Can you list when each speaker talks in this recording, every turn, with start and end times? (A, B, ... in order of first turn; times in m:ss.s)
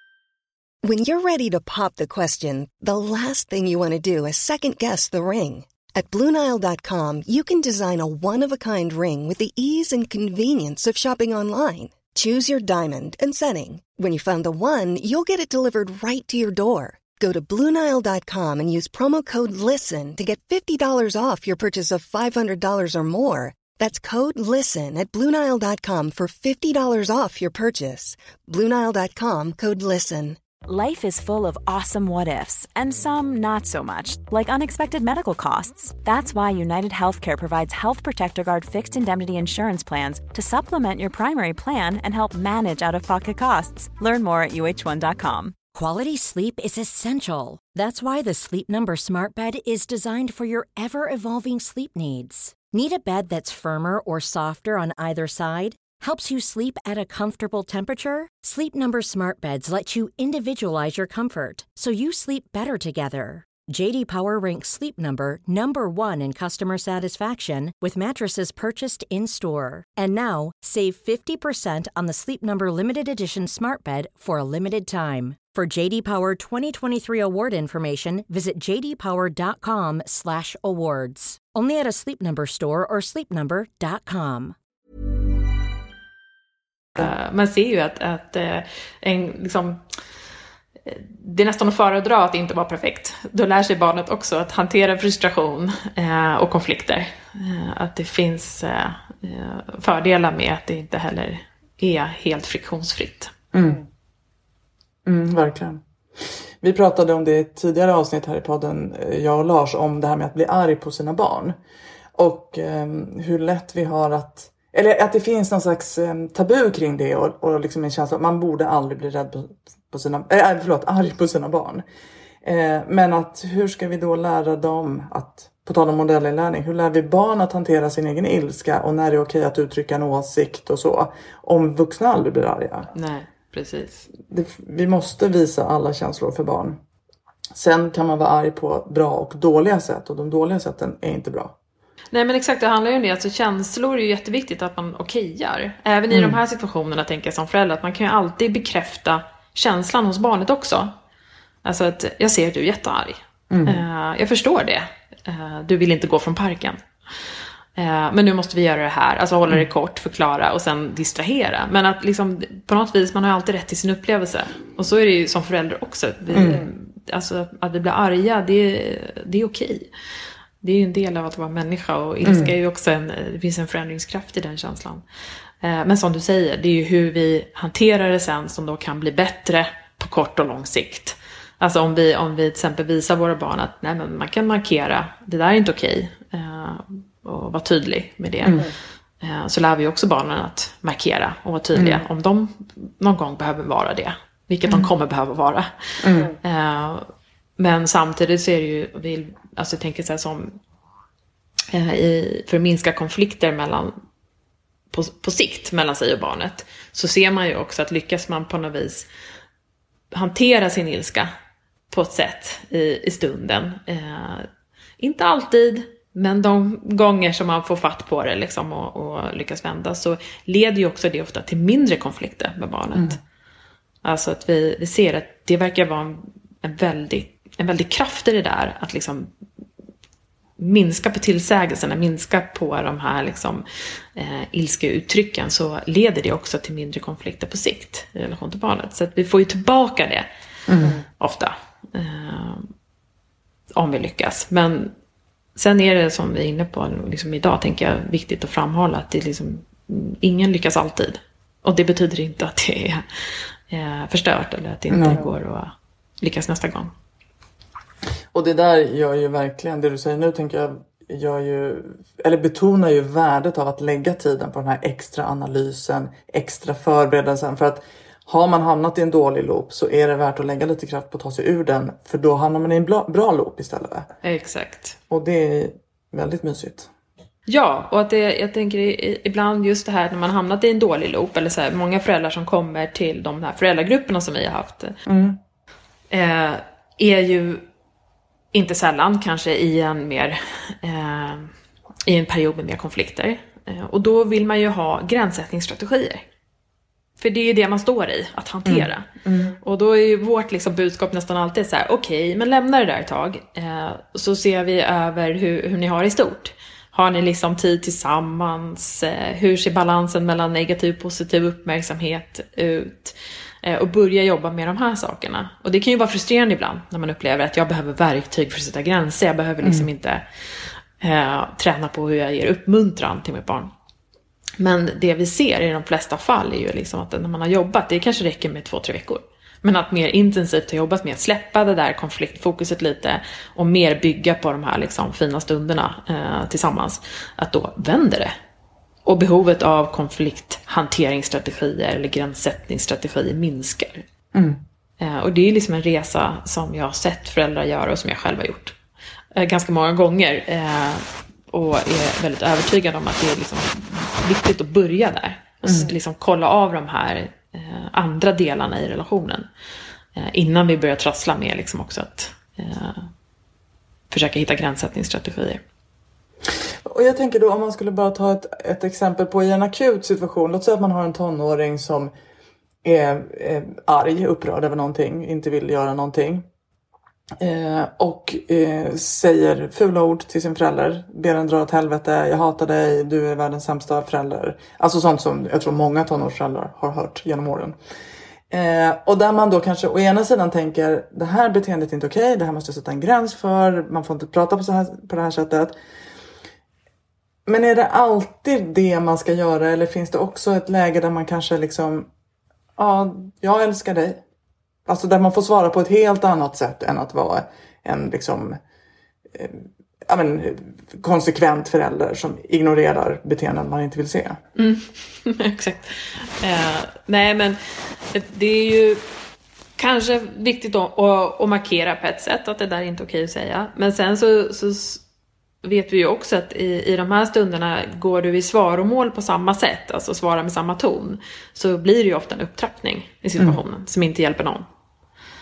0:00.8-0:30.4 A
0:30.6-0:45.6 B
0:45.7-1:24.5 C
1:27.0-1:29.8 D
1:30.8-1:43.3 D
1:43.5-1:43.8 E
1:45.0-1:51.6 E
1:52.1-2:01.8 E
2:02.4-2:12.9 E
2:12.9-2:14.1 D
2:14.2-2:16.8 E
2:17.5-2:21.6 E
2:22.1-2:30.9 D
2:26.1-2:26.4 E
2:31.6-2:36.8 D
2:33.5-2:33.8 E
2:37.8-2:49.9 D
2:46.3-2:46.7 E
2:50.6-2:55.0 D
2:52.2-2:52.5 E
2:55.6-3:20.6 D
3:11.7-3:12.0 E
3:16.0-3:16.3 E
3:21.7-3:23.9 D
3:24.9-3:29.1 D
3:30.1-3:31.3 D
3:31.9-3:34.5 D
3:35.0-3:43.2 D
3:44.0-3:49.3 D
3:50.6-3:53.6 D
3:54.2-4:00.3 D
4:00.7-4:01.0 E
4:00.8-4:02.7 D
4:03.7-4:04.9 D
4:05.6-4:13.0 D
4:13.7-4:16.9 D
4:14.9-4:15.3 E
4:18.3-4:34.1 E
4:34.2-4:35.0 D
4:35.1-4:36.9 E
4:37.5-4:44.9 D
4:45.0-4:45.4 E
4:46.1-4:47.6 D
4:48.5-4:51.5 D
4:52.0-4:56.2 D
4:57.2-5:20.2 D
4:58.6-4:59.6 E
5:19.6-5:19.9 E
5:21.0-5:23.7 D
5:24.6-5:38.3 D
5:39.0-5:44.0 D
5:44.3-5:44.6 E
5:45.0-5:48.8 D
5:49.3-5:59.5 D
5:55.6-5:55.9 E
6:00.2-6:03.1 D
6:04.1-6:05.6 D
6:06.8-6:12.1 E
6:12.8-6:16.4 E
6:17.4-6:27.8 E
6:28.5-6:35.8 E
6:37.4-6:42.1 E
6:42.8-6:44.2 E
6:44.9-6:48.6 E
6:49.3-6:54.4 E
6:54.6-6:57.6 D
6:58.1-6:59.0 D
6:59.8-7:05.0 D
7:05.6-7:14.6 D